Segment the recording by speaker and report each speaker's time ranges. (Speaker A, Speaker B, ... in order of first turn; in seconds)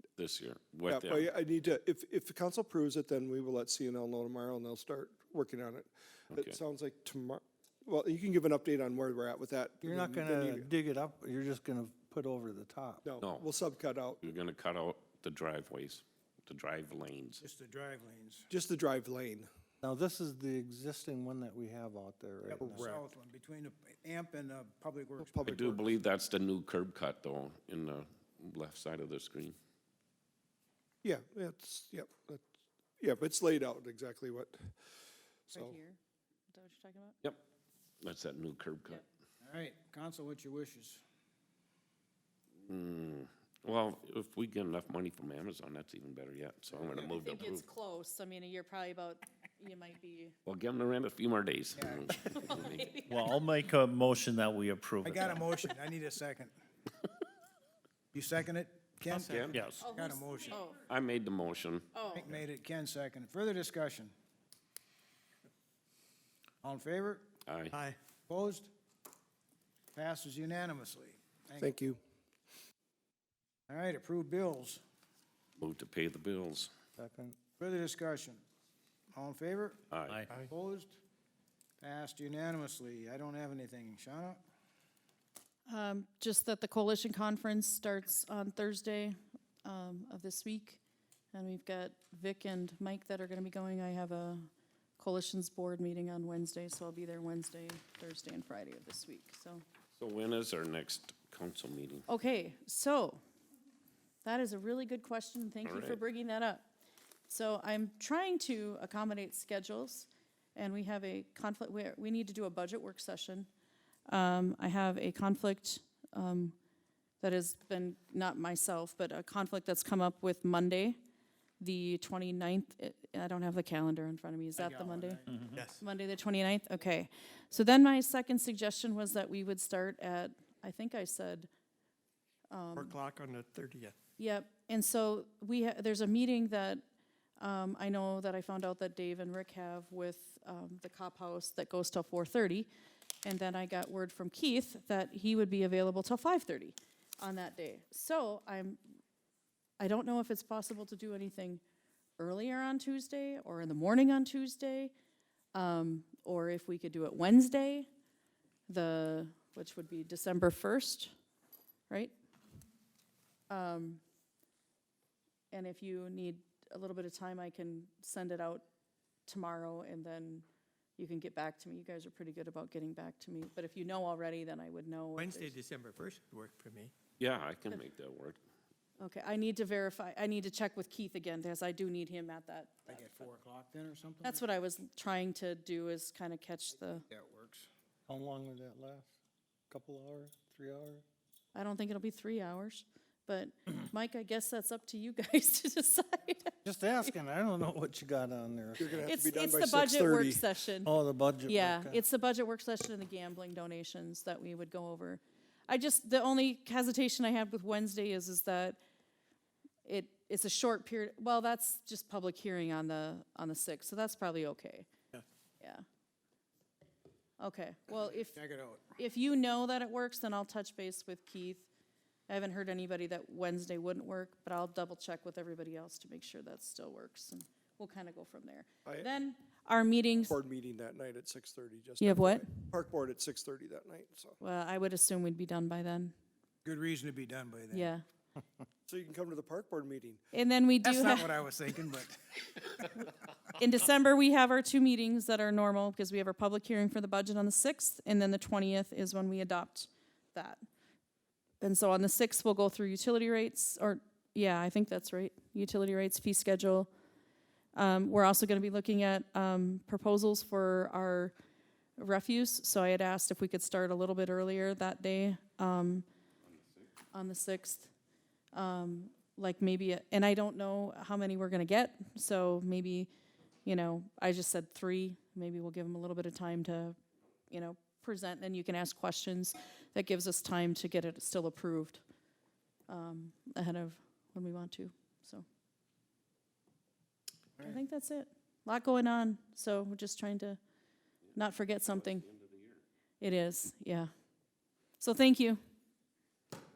Speaker A: 0.2-1.3, 6.3-6.6, 13.2-13.5, 14.2-17.4, 25.5-29.6, 38.0-39.0, 42.7-47.6, 50.5-52.9, 59.2-59.7, 60.9-61.9, 67.5-67.8, 75.6-76.7, 79.9-80.2, 100.0-102.1, 105.7-106.0, 177.2-178.4, 292.1-292.8
Speaker B: 0.9-10.7, 13.1-14.2, 18.5-19.5, 31.0-32.4, 33.0-34.6, 71.6-72.0, 198.8-200.5, 230.3-234.3, 238.9-240.2
Speaker C: 9.8-13.0, 19.8-22.9, 77.0-77.4, 188.1-189.1, 189.7-191.0, 196.7-199.1, 200.8-202.0
Speaker D: 17.4-18.5, 22.5-25.8, 39.4-41.0, 51.8-52.1, 55.0-56.5, 58.1-60.6, 62.1-64.1, 66.6-67.3, 68.3-68.7, 69.9-71.9, 73.7-74.8, 77.6-78.4, 79.1-79.8, 80.4-81.0, 81.8-84.4, 124.6-125.5, 182.9-184.4, 187.1-187.7, 218.3-218.9, 236.7-237.9, 240.8-242.9
Speaker E: 35.5-36.0, 36.5-37.2, 46.8-50.4, 52.2-53.4, 59.7-60.8, 61.9-62.3, 85.7-90.8, 91.3-94.5, 95.0-99.6, 102.1-103.2, 104.2-106.7, 107.3-113.5, 114.1-116.5, 117.2-121.0, 121.6-125.2, 125.8-131.5, 132.5-132.9, 134.2-136.8, 137.4-142.7, 143.2-148.8, 149.8-151.6, 152.2-154.9, 155.5-157.9, 158.7-161.1, 163.5-164.0, 165.5-168.6, 169.3-170.4, 171.0-175.6, 179.0-183.1, 184.2-187.1, 191.5-197.1, 199.1-200.9, 201.5-208.8, 209.8-214.9, 217.4-218.3, 218.9-221.7, 222.3-230.3, 232.0-232.5, 234.4-236.1, 237.7-238.0, 240.3-241.3, 243.6-250.6, 251.6-256.9, 257.8-261.3, 262.0-266.1, 267.1-267.9, 268.5-273.1, 273.6-277.0, 277.5-282.0, 282.9-285.4, 287.6-290.6, 291.4-292.3, 293.2-294.1, 295.0-295.6
Speaker F: 53.1-55.4, 59.5-59.8
Speaker G: 59.1-59.5, 67.7-68.0, 125.5-125.8, 132.8-133.9, 175.2-176.9